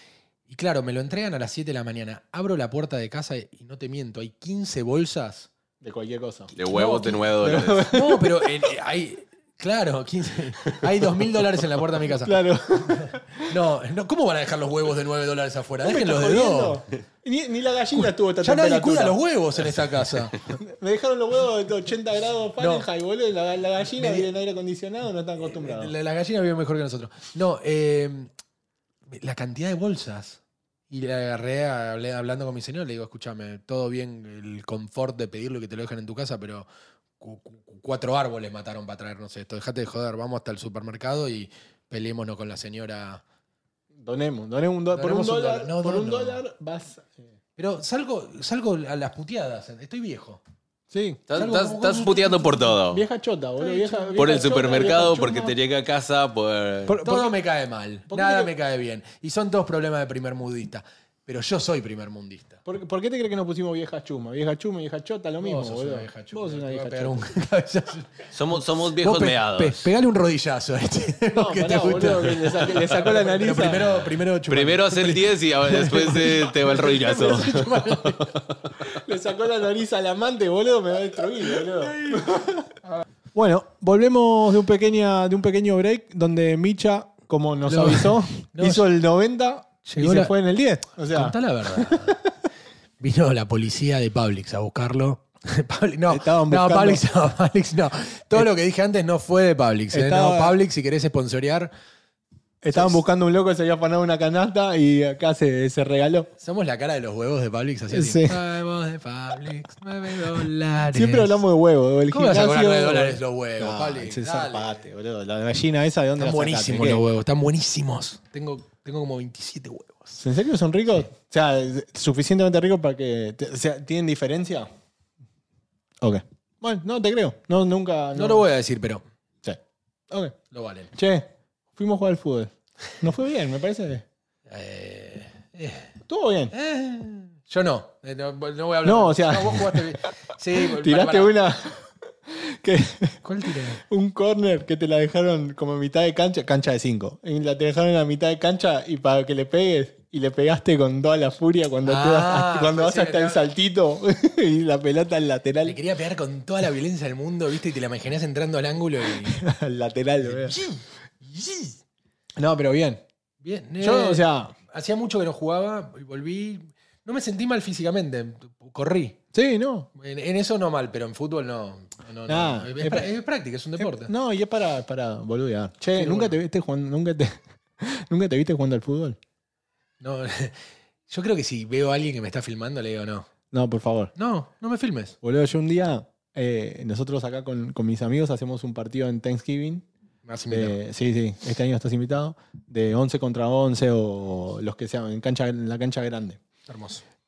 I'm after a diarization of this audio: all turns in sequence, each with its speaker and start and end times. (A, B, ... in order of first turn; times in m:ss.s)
0:00.5-0:05.5 A
0:05.8-0:06.5 B
0:06.6-0:07.9 C
0:06.6-0:07.3 A
0:07.4-0:08.5 B
0:07.9-0:16.8 A
0:12.2-0:13.5 B
0:15.8-0:19.2 B
0:17.9-0:20.4 A
0:20.5-0:25.9 B
0:22.6-0:22.8 A
0:24.0-0:24.3 A
0:25.4-0:28.3 A
0:29.1-0:36.7 A
0:37.2-0:43.2 A
0:43.9-0:47.3 B
0:44.9-0:46.4 A
0:47.6-0:50.4 A
0:50.9-0:51.2 B
0:51.3-0:53.0 C
0:51.4-0:52.8 A
0:52.9-0:55.5 B
0:53.6-0:55.4 A
0:54.2-0:57.0 C
0:56.9-0:57.3 B
0:57.0-1:02.6 A
0:58.1-0:58.5 B
1:02.6-1:07.3 B
1:05.4-1:18.4 A
1:08.3-1:09.9 C
1:11.3-1:13.9 B
1:14.5-1:18.5 C
1:18.8-1:22.7 B
1:21.9-1:22.3 A
1:23.3-1:32.2 B
1:27.6-1:28.9 A
1:29.8-1:30.3 A
1:31.1-1:32.2 A
1:33.0-1:41.7 A
1:36.1-1:37.0 B
1:39.9-1:40.6 B
1:42.6-1:46.3 B
1:42.7-1:43.0 A
1:46.4-1:51.4 A
1:47.9-1:48.4 B
1:50.9-1:57.0 B
1:52.1-1:54.8 A
1:56.2-2:00.2 A
2:00.2-2:04.7 B
2:06.0-2:08.5 B
2:08.1-2:09.0 A
2:09.4-2:10.4 B
2:10.5-2:10.9 A
2:10.9-2:14.0 B
2:14.5-2:15.9 A
2:16.1-2:16.5 B
2:16.5-2:21.3 A
2:18.8-2:19.9 B
2:20.6-2:23.2 B
2:23.2-2:23.8 A
2:23.8-2:35.8 B
2:31.8-2:33.4 A
2:35.6-2:39.4 A
2:39.1-2:40.6 B
2:40.2-2:41.8 A
2:42.4-2:43.0 B
2:43.4-2:49.2 A
2:43.8-2:44.5 B
2:49.3-2:49.9 B
2:49.9-2:54.1 A
2:52.3-2:53.1 B
2:53.8-2:59.2 B
2:56.0-2:56.4 A
3:00.0-3:03.3 A
3:03.5-3:04.1 B
3:04.2-3:05.2 A
3:05.2-3:09.9 B
3:10.2-3:10.8 A
3:10.5-3:16.4 B
3:16.7-3:17.0 A